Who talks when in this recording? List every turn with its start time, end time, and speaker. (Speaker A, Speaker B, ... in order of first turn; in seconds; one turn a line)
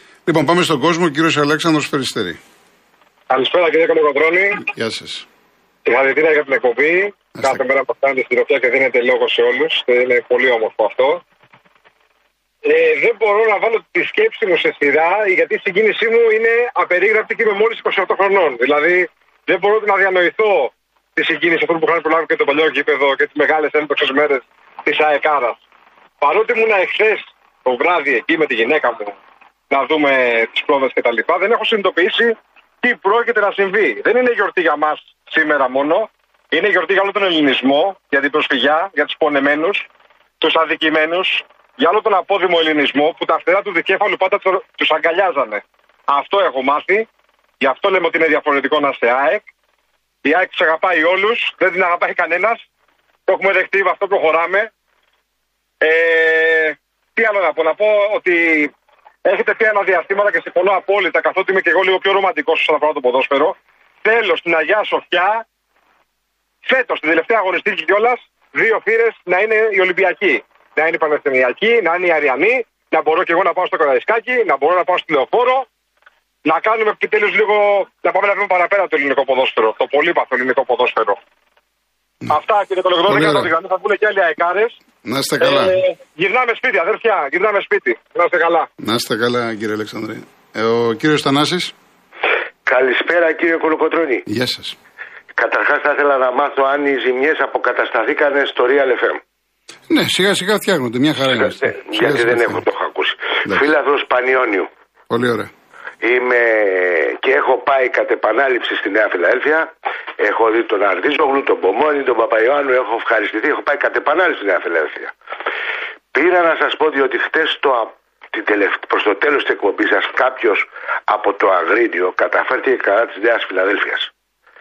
Speaker A: 0.3-2.4
Speaker B: 3.3-4.7
Speaker A: 4.7-5.3
Speaker B: 5.9-11.2
Speaker A: 7.4-7.6
Speaker B: 12.7-25.6
Speaker B: 26.2-29.1
Speaker B: 29.7-39.9
Speaker B: 40.4-47.1
Speaker B: 47.6-49.5
Speaker B: 50.2-52.6
Speaker B: 53.3-54.7
Speaker B: 55.8-58.7
Speaker B: 59.2-65.4
Speaker B: 66.7-75.7
Speaker B: 76.5-81.2
Speaker B: 82.3-84.8
Speaker A: 83.1-83.5
Speaker A: 85.0-85.8
Speaker B: 85.4-88.7
Speaker A: 88.8-91.7
Speaker C: 92.7-94.2
Speaker A: 94.3-94.8
Speaker C: 95.3-99.2
Speaker A: 99.9-102.7
Speaker C: 101.3-104.7
Speaker A: 105.1-105.5
Speaker C: 106.0-109.7
Speaker C: 110.2-115.1
Speaker C: 116.1-124.1